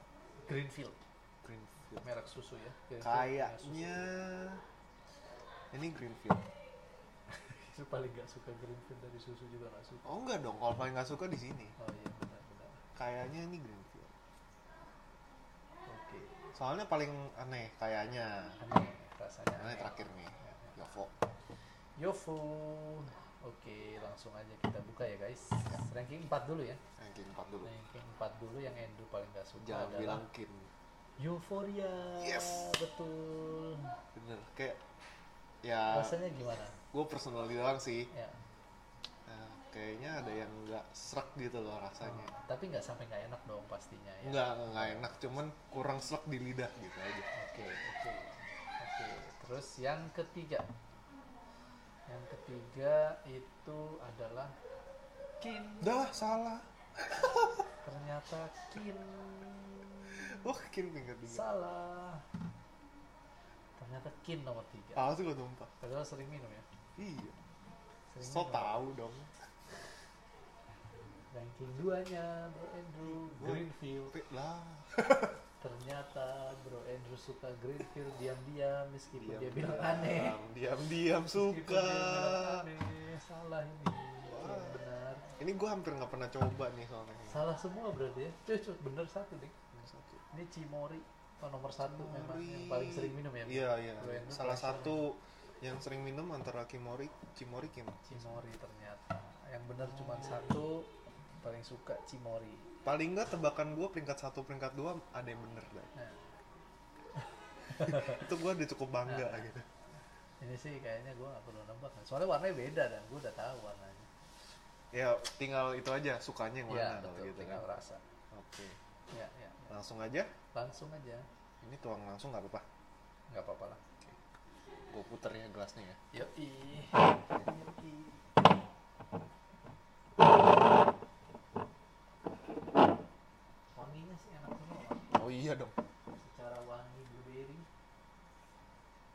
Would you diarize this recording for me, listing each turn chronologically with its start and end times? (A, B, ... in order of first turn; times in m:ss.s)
0:00.4-0:01.0 A
0:01.4-0:02.0 B
0:02.0-0:04.1 A
0:03.0-0:04.6 B
0:05.7-0:06.5 B
0:07.3-0:10.1 A
0:10.0-0:11.7 B
0:11.8-0:12.8 A
0:12.9-0:14.1 B
0:15.9-0:16.5 A
0:16.5-0:18.6 B
0:18.6-0:20.9 A
0:19.5-0:21.1 B
0:22.0-0:26.8 A
0:27.0-0:27.7 B
0:27.6-0:30.2 A
0:29.6-0:30.7 B
0:31.2-0:34.0 A
0:32.2-0:32.7 B
0:34.1-0:34.8 B
0:35.6-0:36.2 B
0:35.9-0:36.8 A
0:36.9-0:38.1 B
0:38.1-0:38.4 A
0:39.2-0:42.3 B
0:42.0-0:45.4 A
0:44.2-0:47.3 B
0:47.3-0:50.7 A
0:52.1-0:54.5 A
0:55.4-0:56.0 A
0:55.8-0:57.6 B
0:57.8-1:00.2 A
1:00.1-1:01.4 B
1:01.2-1:02.2 A
1:03.8-1:05.0 A
1:05.0-1:05.7 B
1:05.8-1:06.6 A
1:07.0-1:07.4 B
1:08.1-1:08.9 A
1:08.2-1:09.3 B
1:11.3-1:14.1 A
1:13.0-1:15.4 B
1:15.6-1:20.4 A
1:19.2-1:22.6 B
1:21.3-1:25.4 A
1:24.3-1:24.8 B
1:25.4-1:27.4 B
1:27.3-1:29.7 A
1:29.7-1:30.2 B
1:30.3-1:35.0 A
1:31.8-1:38.1 B
1:38.0-1:42.7 A
1:39.8-1:40.6 B
1:42.8-1:45.9 B
1:46.0-1:46.3 A
1:47.7-1:49.6 B
1:47.7-1:48.3 A
1:49.0-1:49.5 A
1:50.4-1:54.1 A
1:54.9-1:57.6 B
1:56.7-1:58.0 A
1:58.3-1:58.8 B
1:59.1-1:59.7 A
1:59.7-2:00.3 B
2:00.5-2:01.2 A
2:01.6-2:02.6 B
2:03.3-2:03.8 A
2:04.9-2:06.0 B
2:06.1-2:08.2 A
2:13.7-2:15.2 A
2:15.1-2:15.8 B
2:16.1-2:17.7 A